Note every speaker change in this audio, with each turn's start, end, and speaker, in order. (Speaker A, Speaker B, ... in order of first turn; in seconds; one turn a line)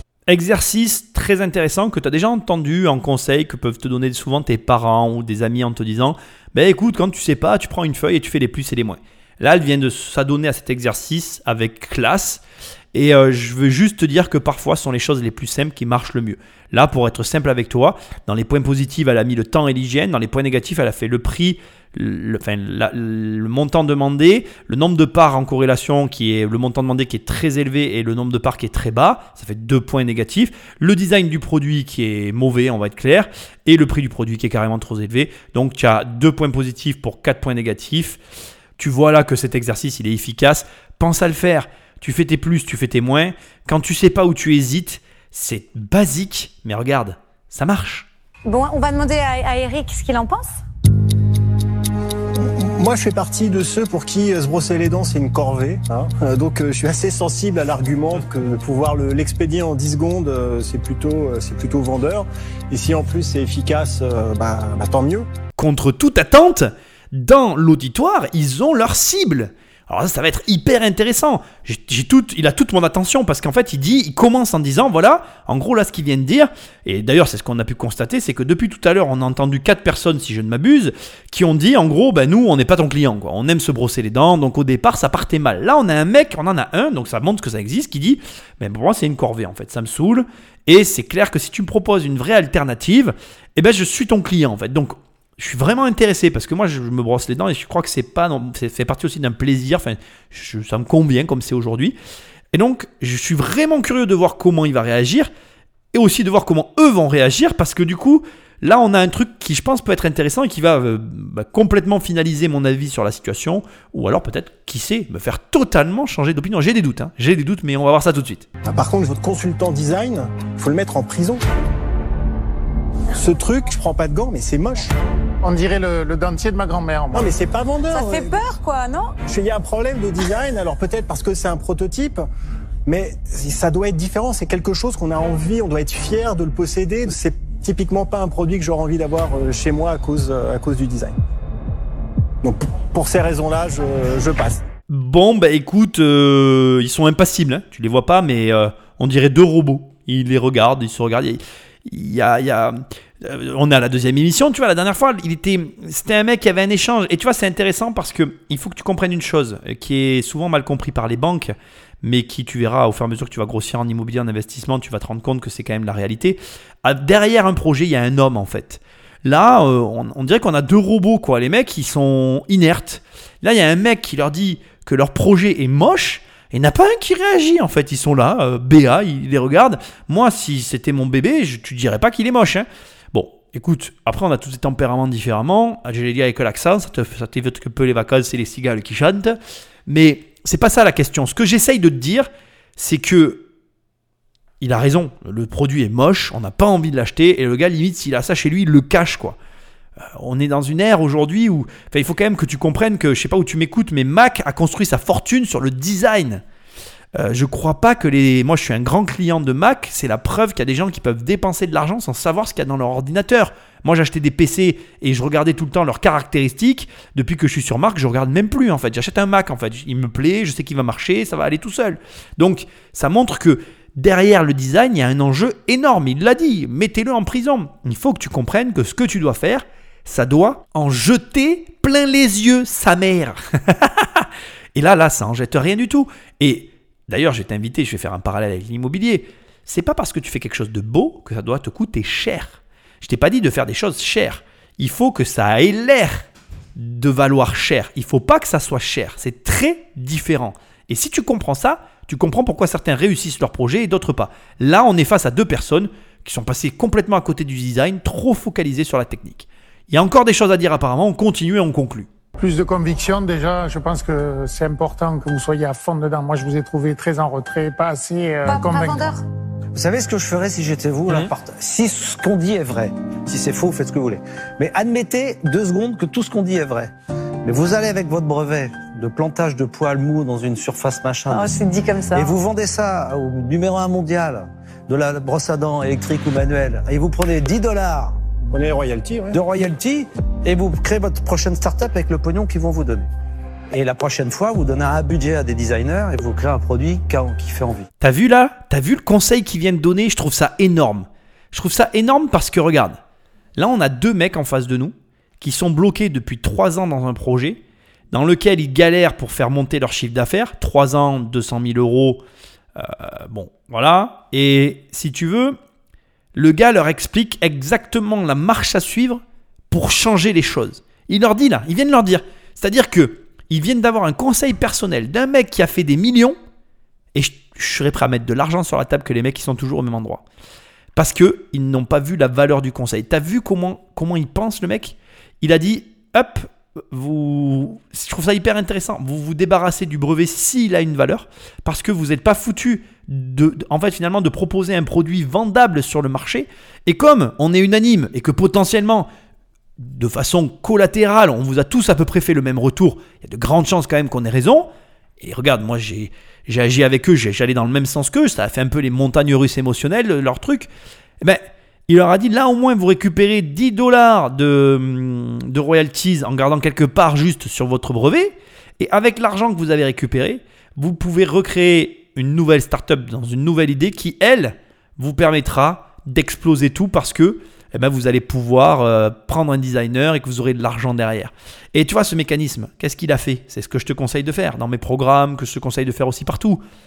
Speaker A: 0.3-12.4
Speaker A: 12.9-38.2
Speaker A: 38.8-48.1
Speaker B: 48.5-50.6
Speaker C: 52.4-65.3
Speaker A: 65.6-102.0
Speaker A: 102.5-105.3
Speaker A: 105.9-118.5
Speaker C: 118.6-121.4
Speaker C: 123.1-124.9
Speaker D: 125.4-127.3
Speaker C: 127.1-128.3
Speaker B: 127.9-129.2
Speaker C: 129.3-132.2
Speaker C: 132.9-141.1
Speaker C: 142.4-144.6
Speaker A: 144.9-193.4
Speaker A: 194.6-199.4
Speaker A: 200.0-206.4
Speaker A: 207.2-262.1
Speaker D: 262.4-269.1
Speaker B: 268.4-269.2
Speaker E: 269.8-276.9
Speaker E: 277.4-281.6
Speaker B: 281.3-282.4
Speaker E: 282.1-288.2
Speaker C: 288.5-289.4
Speaker E: 289.3-293.1
Speaker E: 293.7-297.9
Speaker A: 298.0-303.0
Speaker A: 303.6-312.2
Speaker A: 312.8-315.6
Speaker A: 316.4-326.4
Speaker A: 327.1-330.2
Speaker A: 330.9-349.1
Speaker A: 349.8-360.7
Speaker A: 361.2-386.6